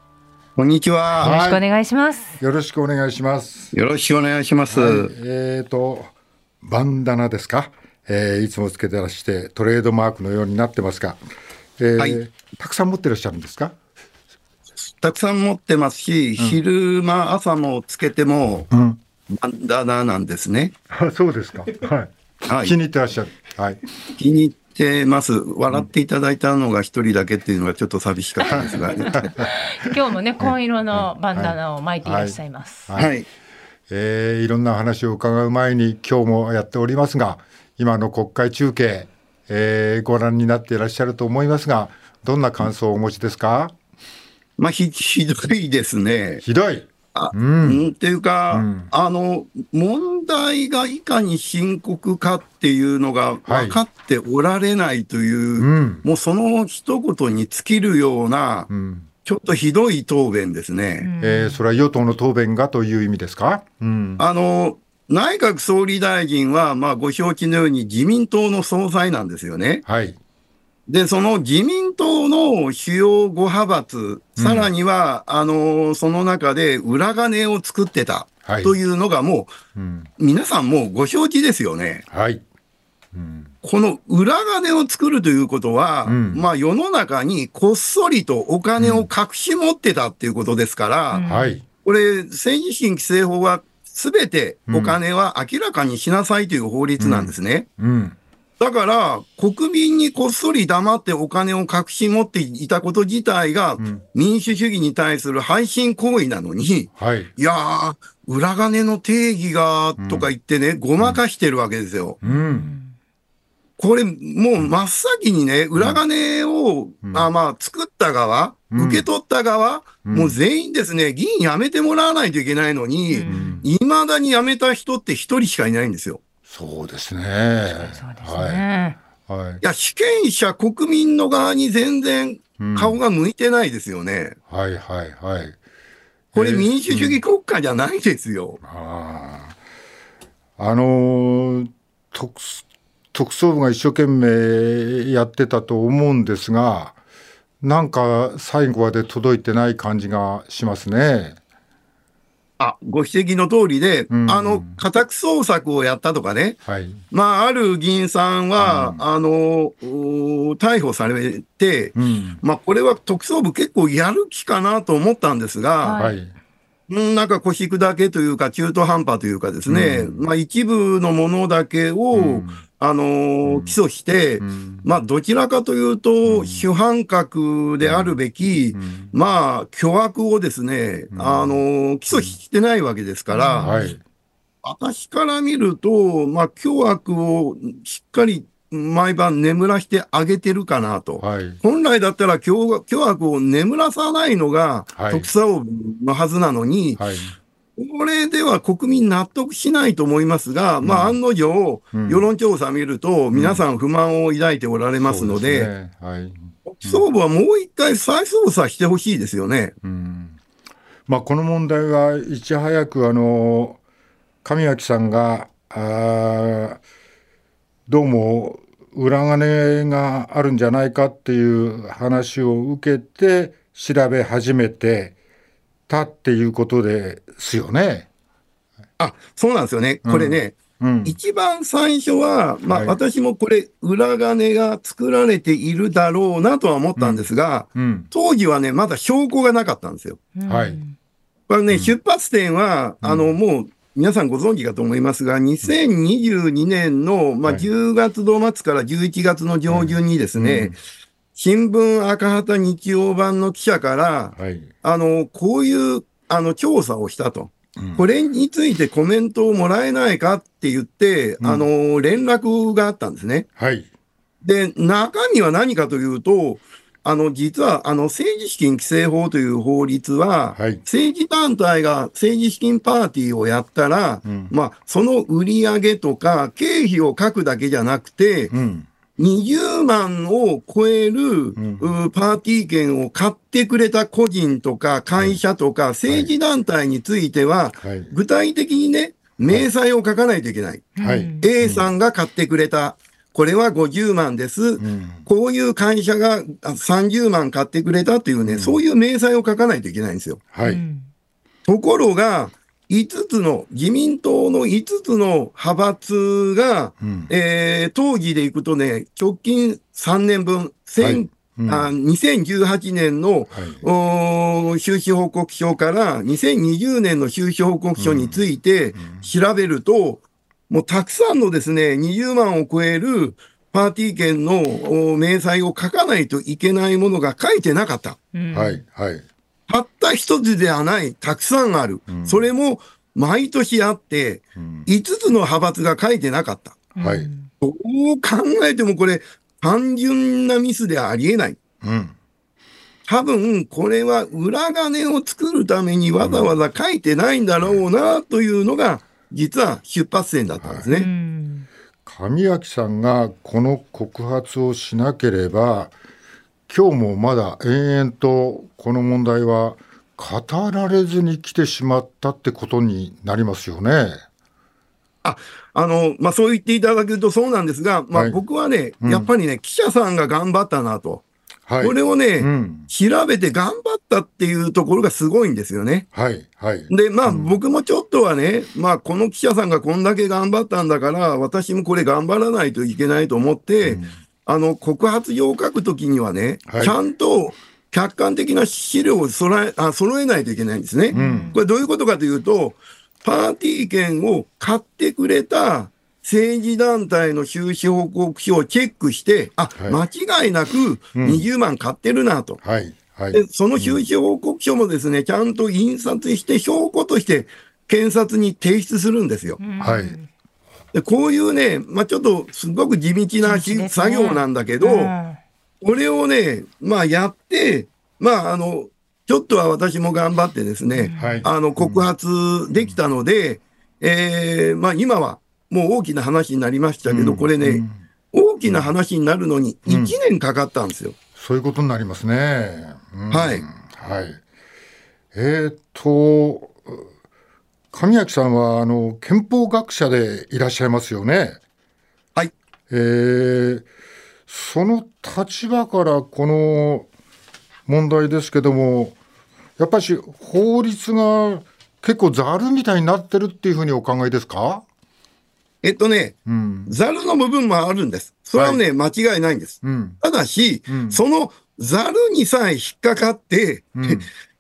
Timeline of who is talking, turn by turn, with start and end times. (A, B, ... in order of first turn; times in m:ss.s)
0:00.6-0:01.3 A
0:01.2-0:01.6 B
0:01.2-0:02.4 C
0:02.4-0:03.7 B
0:03.7-0:05.1 A
0:04.7-0:11.2 B
0:11.8-0:13.8 B
0:15.0-0:18.7 A
0:18.7-0:19.0 B
0:19.3-0:20.7 A
0:20.9-0:23.8 B
0:22.5-0:22.8 A
0:24.2-0:29.3 A
0:28.4-0:33.0 C
0:28.5-0:29.9 B
0:30.4-0:33.1 B
0:33.0-0:33.2 A
0:33.9-0:43.7 B
0:44.6-0:46.4 A
0:46.4-0:47.8 B
0:47.1-0:58.7 A
0:48.5-0:48.9 B
0:53.4-0:53.8 B
0:55.6-0:56.0 B
0:58.7-0:59.1 B
0:59.2-1:01.1 A
1:01.0-1:01.6 C
1:01.2-1:04.2 B
1:04.2-1:09.8 A
1:09.8-1:10.2 B
1:10.9-1:19.5 A
1:14.4-1:14.7 B
1:18.4-1:18.8 B
1:19.7-1:20.1 B
1:20.2-1:22.0 A
1:22.1-1:22.4 B
1:23.1-1:23.5 B
1:23.6-1:31.3 A
1:26.0-1:26.5 B
1:28.8-1:29.1 B
1:31.1-1:31.6 C
1:31.2-1:31.6 B
1:31.8-1:37.7 A
1:34.7-1:35.0 B
1:37.0-1:38.2 B
1:38.6-1:52.2 A
1:47.0-1:47.3 B
1:50.0-1:50.3 B
1:52.2-1:52.7 B
1:52.2-1:52.9 C
1:53.8-2:06.2 A
1:58.7-1:59.1 B
2:00.0-2:00.4 B
2:03.1-2:03.6 C
2:03.2-2:03.7 B
2:06.5-2:08.6 B
2:07.8-2:09.0 C
2:09.2-2:09.6 B
2:09.6-2:14.4 A
2:12.6-2:13.0 B
2:14.5-2:15.6 B
2:16.3-2:17.2 B
2:16.3-2:18.6 A
2:18.6-2:19.6 B
2:20.6-2:27.0 B
2:27.6-2:31.4 B
2:32.6-2:46.0 A
2:34.1-2:34.8 B
2:36.7-2:37.0 B
2:38.6-2:39.0 B
2:42.0-2:42.4 B
2:45.8-2:46.2 C
2:46.0-2:46.3 B
2:46.9-3:03.7 A
2:49.7-2:50.3 B
2:52.1-2:52.6 B
2:53.4-2:53.8 B
2:54.4-2:54.8 B
2:56.2-2:56.6 B
2:57.8-2:58.2 B
2:58.7-2:59.1 B
3:01.1-3:02.3 B
3:03.3-3:03.9 C
3:03.6-3:04.0 B
3:04.6-3:17.0 A
3:11.2-3:11.6 B
3:15.0-3:15.3 B
3:17.0-3:17.4 B
3:17.8-3:25.7 A
3:20.8-3:21.2 B
3:21.9-3:22.3 B
3:23.3-3:23.6 B
3:25.0-3:27.0 B
3:26.6-3:29.7 A
3:29.8-3:30.4 B
3:31.1-3:33.8 B
3:34.4-3:36.8 B
3:37.9-3:45.2 B
3:45.9-3:48.1 B
3:49.0-4:00.2 A
3:50.0-3:51.2 B
3:52.7-3:53.0 B
3:57.0-3:58.1 B
4:00.4-4:01.0 C
4:00.4-4:00.8 B
4:01.5-4:10.8 A
4:01.7-4:02.0 B
4:03.0-4:03.3 B
4:09.7-4:10.8 B
4:11.4-4:23.5 A
4:14.4-4:14.7 B
4:17.8-4:18.0 B
4:21.4-4:21.7 B
4:23.6-4:23.9 B
4:24.4-4:38.5 A
4:30.5-4:30.8 B
4:34.2-4:34.5 B
4:38.5-4:38.9 B
4:39.2-5:00.4 A
4:41.6-4:41.9 B
4:46.1-4:46.3 B
4:47.8-4:48.1 B
4:51.0-4:51.5 C
4:51.0-4:51.9 B
4:54.8-4:55.2 B
4:58.4-4:58.8 B
5:00.5-5:00.8 B
5:00.6-5:01.1 C
5:01.7-5:28.2 A
5:07.0-5:07.3 B
5:11.0-5:11.9 B
5:13.5-5:13.8 B
5:18.0-5:18.4 B
5:19.0-5:19.3 B
5:28.3-5:28.8 C
5:28.5-5:29.2 B
5:29.7-5:36.8 A
5:32.1-5:32.5 B
5:34.6-5:34.9 B
5:36.9-5:37.5 C
5:37.0-5:37.3 B
5:37.6-5:41.6 A
5:41.8-5:42.1 B
5:43.0-5:51.1 A
5:46.2-5:46.5 B
5:50.6-5:50.9 B
5:50.9-5:51.7 C
5:52.0-5:55.9 B
5:56.7-6:04.2 B
6:05.2-6:11.2 A
6:08.1-6:08.4 B
6:09.0-6:09.3 B
6:11.7-6:12.9 B
6:11.8-6:16.1 A
6:16.1-6:17.5 B
6:16.9-6:42.6 A
6:23.8-6:24.1 B
6:26.7-6:27.0 B
6:31.1-6:31.6 C
6:31.1-6:31.6 B
6:41.2-6:41.4 B
6:42.6-6:44.0 B
6:43.3-6:49.6 A
6:49.6-6:50.3 C
6:49.8-6:50.2 B
6:50.9-6:55.1 A
6:53.4-6:55.4 C
6:55.8-7:11.2 A
7:00.9-7:01.4 C
7:01.2-7:02.1 B
7:07.1-7:08.0 B
7:08.6-7:08.9 B
7:09.9-7:10.2 B
7:11.3-7:14.4 B
7:13.3-7:13.6 A
7:15.3-7:17.0 B
7:17.9-7:21.6 B
7:22.9-7:23.9 B
7:24.5-7:27.1 B
7:27.9-7:29.2 B
7:29.8-7:34.8 B
7:35.8-7:44.2 A
7:36.4-7:37.0 B
7:38.5-7:38.8 B
7:39.8-7:40.2 B
7:40.9-7:41.2 B
7:44.0-7:44.3 B